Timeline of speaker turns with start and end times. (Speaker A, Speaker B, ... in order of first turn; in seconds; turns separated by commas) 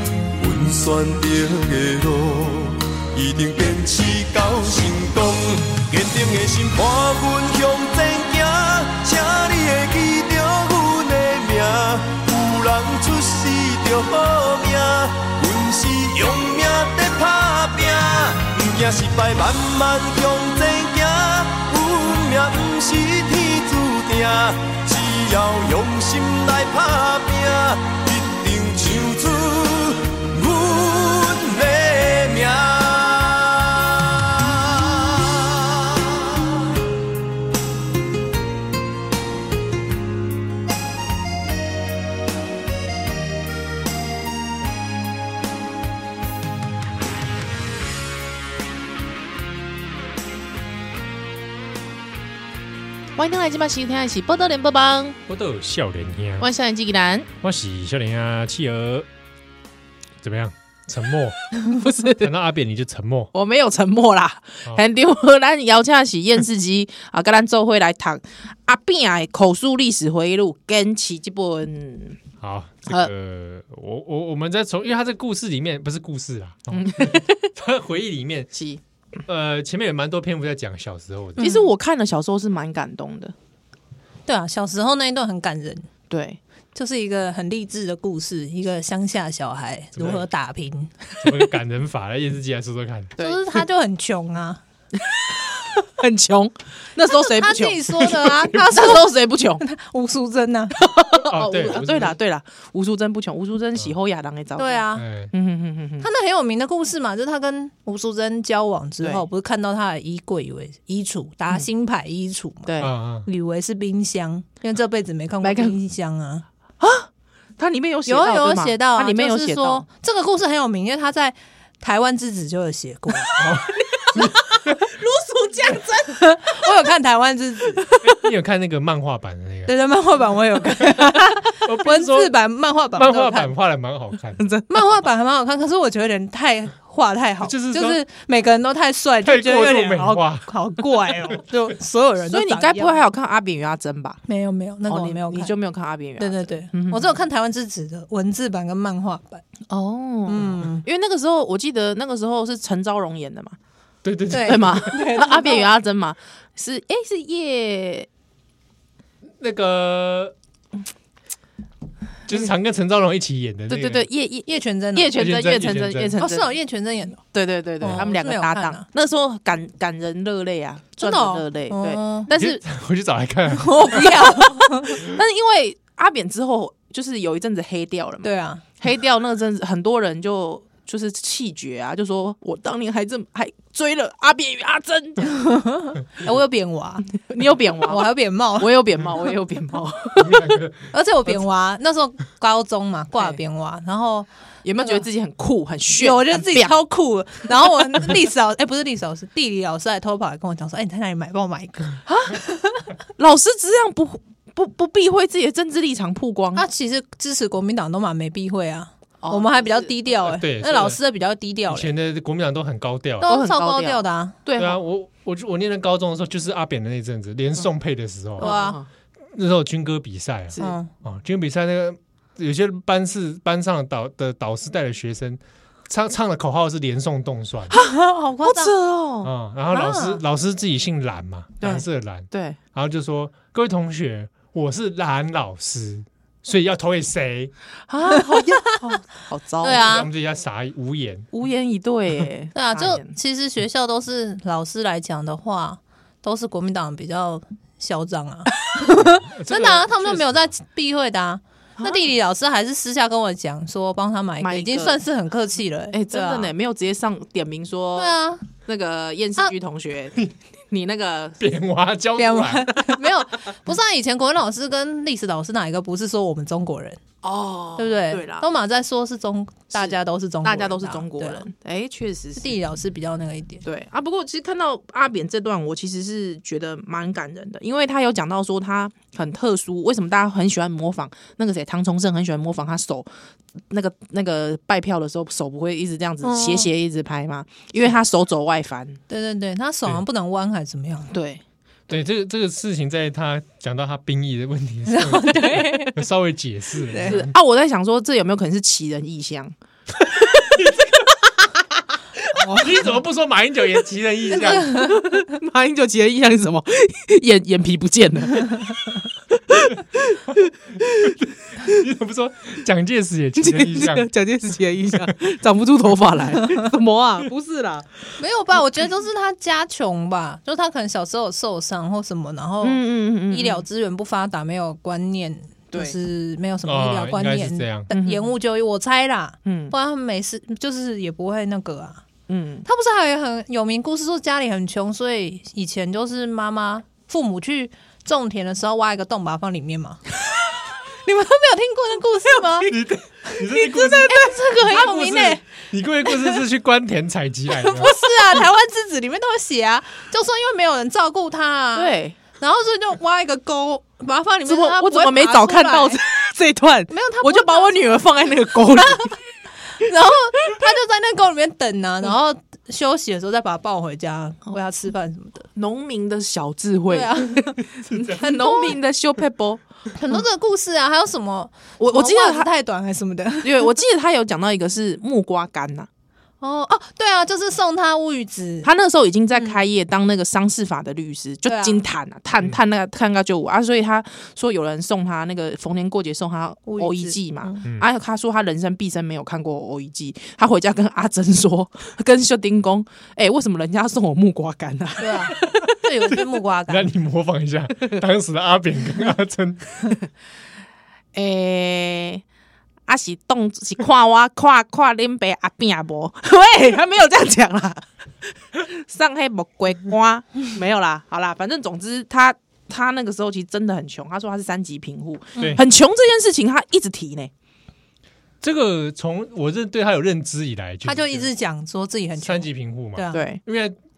Speaker A: 0.3-36.7, Speaker B: 53.2-55.2, Speaker C: 55.3-56.5, Speaker B: 56.4-57.3, Speaker C: 57.4-59.1, Speaker C: 60.2-61.5, Speaker B: 61.6-62.3, Speaker C: 62.1-63.3, Speaker B: 63.3-72.2, Speaker C: 72.4-78.5, Speaker B: 76.7-77.5, Speaker B: 78.5-78.8, Speaker C: 79.3-81.5, Speaker D: 81.4-81.7, Speaker B: 81.4-83.3, Speaker D: 84.2-85.9, Speaker B: 86.1-86.4, Speaker D: 86.7-90.9, Speaker C: 89.9-90.2, Speaker C: 91.2-93.1, Speaker B: 93.2-93.4, Speaker D: 93.2-94.6, Speaker B: 95.0-99.6, Speaker D: 97.1-99.0, Speaker D: 99.6-100.8, Speaker B: 100.8-106.1, Speaker C: 101.3-102.2, Speaker D: 104.6-105.0, Speaker C: 104.9-105.3, Speaker D: 106.0-112.7, Speaker B: 112.7-112.9, Speaker C: 112.8-113.3, Speaker D: 113.2-116.4, Speaker B: 115.4-115.7, Speaker B: 116.8-119.8, Speaker D: 118.1-123.4, Speaker B: 123.3-126.2, Speaker C: 123.4-124.8, Speaker D: 126.1-127.8, Speaker B: 127.8-128.2, Speaker C: 128.0-129.7, Speaker D: 129.7-133.5, Speaker C: 131.5-132.3, Speaker C: 132.9-134.5, Speaker B: 134.4-134.7, Speaker D: 134.7-143.0, Speaker C: 137.4-138.0, Speaker C: 139.2-140.5, Speaker B: 142.3-144.2, Speaker D: 144.3-145.5, Speaker B: 144.9-147.1, Speaker D: 146.2-149.4, Speaker B: 149.7-153.6, Speaker D: 150.3-150.8, Speaker C: 154.0-154.9, Speaker D: 154.3-155.7, Speaker B: 154.4-158.1, Speaker C: 159.4-160.3, Speaker C: 162.3-164.1, Speaker B: 163.7-166.5, Speaker D: 164.5-165.2, Speaker C: 165.1-166.2, Speaker D: 166.2-167.2, Speaker B: 167.3-172.6, Speaker D: 167.8-168.8, Speaker D: 171.0-172.3, Speaker C: 172.3-174.1, Speaker D: 173.5-175.0, Speaker B: 174.0-178.3, Speaker D: 178.2-178.6, Speaker B: 178.8-185.3, Speaker D: 185.2-187.1, Speaker B: 187.2-190.6, Speaker D: 187.8-188.7, Speaker C: 190.2-191.3, Speaker D: 190.9-194.3, Speaker B: 194.6-196.7, Speaker D: 195.9-202.9, Speaker B: 202.1-202.4, Speaker B: 203.2-206.6, Speaker D: 206.5-211.9, Speaker B: 209.2-209.9, Speaker C: 210.2-211.0, Speaker C: 211.7-213.3, Speaker D: 213.2-214.3, Speaker B: 213.2-214.8, Speaker C: 214.6-218.6, Speaker D: 218.4-218.8, Speaker B: 218.4-218.9, Speaker C: 219.3-227.7, Speaker D: 220.6-220.9, Speaker B: 227.7-229.3, Speaker D: 227.7-228.7, Speaker C: 229.2-237.5, Speaker D: 229.7-230.2, Speaker B: 231.6-232.6, Speaker B: 237.9-239.9, Speaker D: 239.6-240.1, Speaker C: 239.7-241.3, Speaker B: 241.3-243.2, Speaker D: 242.5-256.5, Speaker C: 249.0-250.5, Speaker B: 251.8-252.0, Speaker B: 254.4-255.0, Speaker B: 255.9-261.4, Speaker D: 258.0-258.5, Speaker C: 261.4-262.7, Speaker D: 262.2-267.0, Speaker B: 267.2-268.5, Speaker D: 267.8-271.4, Speaker B: 269.7-272.6, Speaker D: 272.4-273.6, Speaker B: 273.6-283.1, Speaker B: 283.7-289.0, Speaker D: 286.2-286.7, Speaker D: 289.1-291.1, Speaker B: 291.1-291.9, Speaker C: 291.9-297.3, Speaker D: 294.9-295.9, Speaker D: 296.9-297.2, Speaker B: 297.0-300.6, Speaker C: 300.6-300.9, Speaker D: 302.3-302.7, Speaker C: 302.5-304.8, Speaker D: 304.3-305.0, Speaker B: 304.4-311.1, Speaker C: 311.0-314.1, Speaker B: 313.4-318.0, Speaker D: 318.2-332.0, Speaker B: 322.6-323.6, Speaker C: 326.6-327.9, Speaker B: 327.9-328.3, Speaker B: 329.4-329.7, Speaker B: 332.3-332.6, Speaker D: 332.6-340.0, Speaker D: 341.0-342.7, Speaker C: 342.7-347.9, Speaker D: 343.5-345.4, Speaker B: 344.0-344.7, Speaker D: 347.5-356.0, Speaker B: 351.7-352.2, Speaker B: 354.4-359.2, Speaker D: 356.9-358.0, Speaker D: 358.8-359.1, Speaker D: 359.7-365.5, Speaker B: 365.6-369.6, Speaker D: 366.9-367.6, Speaker C: 367.9-368.2, Speaker D: 368.2-368.7, Speaker D: 369.9-373.7, Speaker B: 371.8-372.5, Speaker B: 373.4-375.9, Speaker D: 376.4-378.7, Speaker B: 378.6-395.7, Speaker D: 381.5-381.8, Speaker D: 386.7-387.6, Speaker D: 395.0-396.9, Speaker C: 396.7-399.9, Speaker B: 401.1-402.2, Speaker B: 402.9-417.3, Speaker C: 418.4-421.3, Speaker D: 420.8-423.2, Speaker C: 422.2-423.8, Speaker B: 423.1-423.4